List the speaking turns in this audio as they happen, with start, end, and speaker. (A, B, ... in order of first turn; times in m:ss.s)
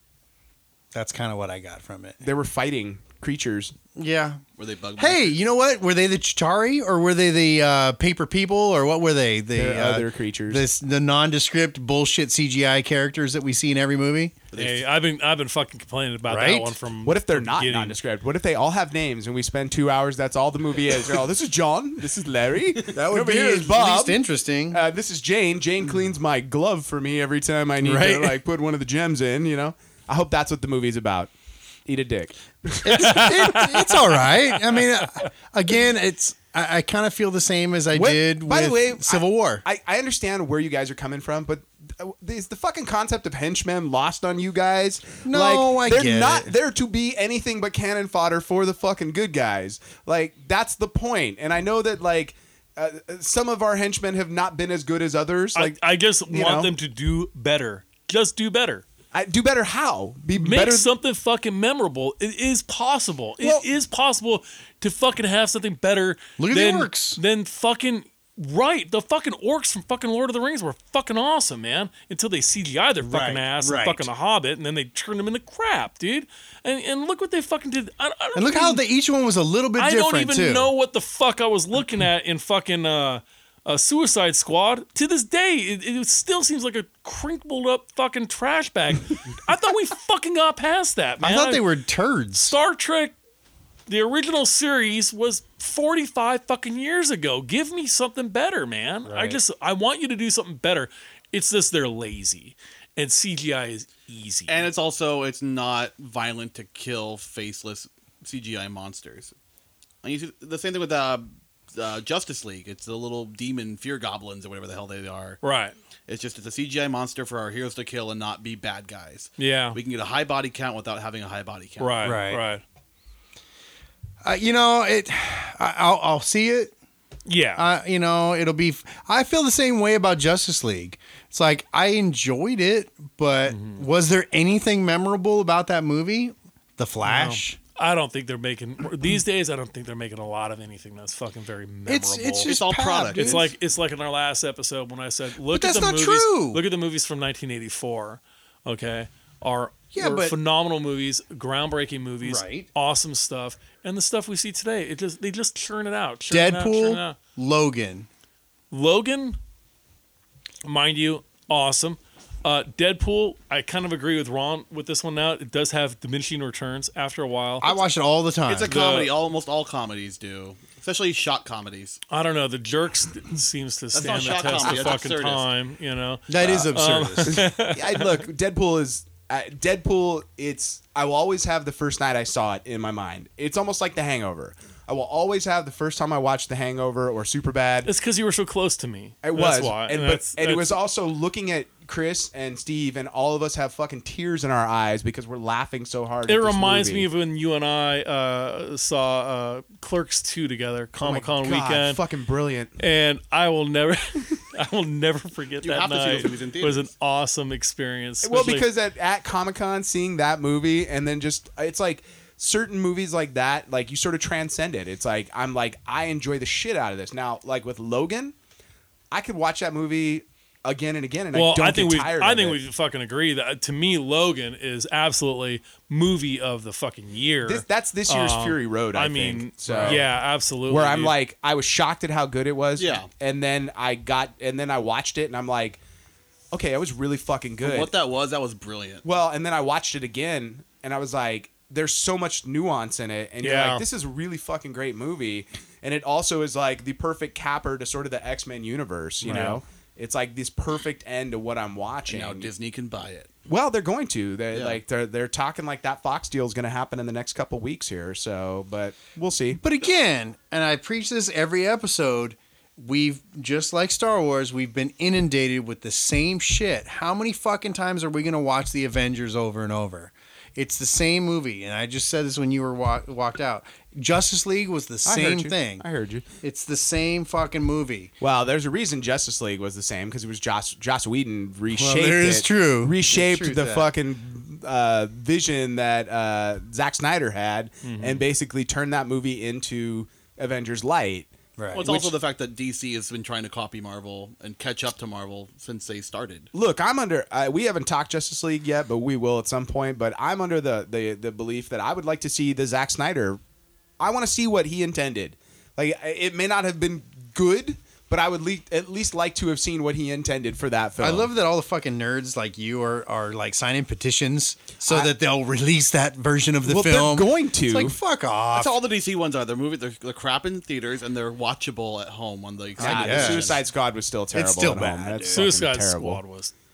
0:00.9-0:02.2 A
0:02.2-0:03.7 B
0:04.0-0:04.4 A
0:04.6-0:05.4 C
0:05.0-0:14.4 A
0:09.6-0:10.6 B
0:14.5-0:14.8 C
0:14.5-0:18.0 D
0:16.3-0:16.7 A
0:17.0-0:24.2 B
0:22.9-0:24.8 A
0:24.7-0:31.3 B
0:27.8-0:28.4 A
0:31.8-0:33.7 B
0:32.8-0:39.6 A
0:32.9-0:34.0 D
0:37.9-0:55.8 B
0:45.2-0:46.5 A
0:55.5-0:58.8 D
0:56.3-0:56.7 B
0:59.1-1:00.9 B
1:00.3-1:18.8 D
1:06.4-1:07.2 A
1:13.0-1:14.1 A
1:18.3-1:20.7 A
1:19.8-1:31.6 D
1:31.2-1:32.6 A
1:32.4-1:33.1 D
1:33.9-1:44.7 D
1:39.0-1:39.4 A
1:44.5-1:49.3 C
1:50.0-1:55.4 C
1:55.4-1:55.7 D
1:56.1-2:02.1 C
1:59.4-1:59.8 D
2:01.8-2:02.6 D
2:02.0-2:02.4 A
2:04.2-2:06.7 A
2:07.2-2:07.7 D
2:07.6-2:17.6 A
2:13.5-2:13.8 D
2:17.0-2:22.5 D
2:21.9-2:23.5 A
2:22.4-2:23.5 C
2:23.1-2:37.2 D
2:25.5-2:26.6 A
2:29.9-2:30.4 A
2:32.2-2:32.7 A
2:36.3-2:38.1 A
2:38.7-2:39.4 D
2:40.6-2:47.8 D
2:47.6-2:48.7 A
2:48.5-2:52.0 C
2:48.7-2:49.1 D
2:52.1-2:58.2 D
2:53.9-2:55.4 C
2:54.0-2:54.7 B
2:56.3-2:57.4 A
2:57.3-3:07.9 B
3:07.8-3:10.8 D
3:09.2-3:17.1 B
3:16.2-3:22.0 D
3:21.0-3:22.8 B
3:22.8-3:28.6 D
3:25.6-3:26.9 C
3:28.2-3:38.3 B
3:39.1-3:42.6 B
3:41.3-3:51.2 D
3:47.4-3:50.1 B
3:50.7-3:55.8 B
3:52.8-3:53.1 C
3:56.5-3:57.9 B
3:57.6-3:59.0 C
3:59.0-4:12.5 B
4:03.4-4:03.8 D
4:09.2-4:09.6 D
4:12.1-4:13.3 C
4:13.5-4:19.6 B
4:14.5-4:14.8 C
4:19.6-4:35.8 A
4:35.0-4:36.3 B
4:36.4-4:38.1 A
4:38.2-4:51.3 B
4:41.7-4:43.9 A
4:47.8-4:48.2 D
4:51.6-4:51.9 A
4:51.7-4:56.5 C
4:51.8-4:52.1 B
4:56.5-5:03.4 B
5:04.0-5:11.3 B
5:11.0-5:18.8 A
5:14.8-5:15.1 B
5:16.6-5:18.0 B
5:18.5-5:23.6 C
5:22.8-5:23.6 A
5:22.8-5:26.2 B
5:24.3-5:25.5 A
5:25.3-5:26.5 D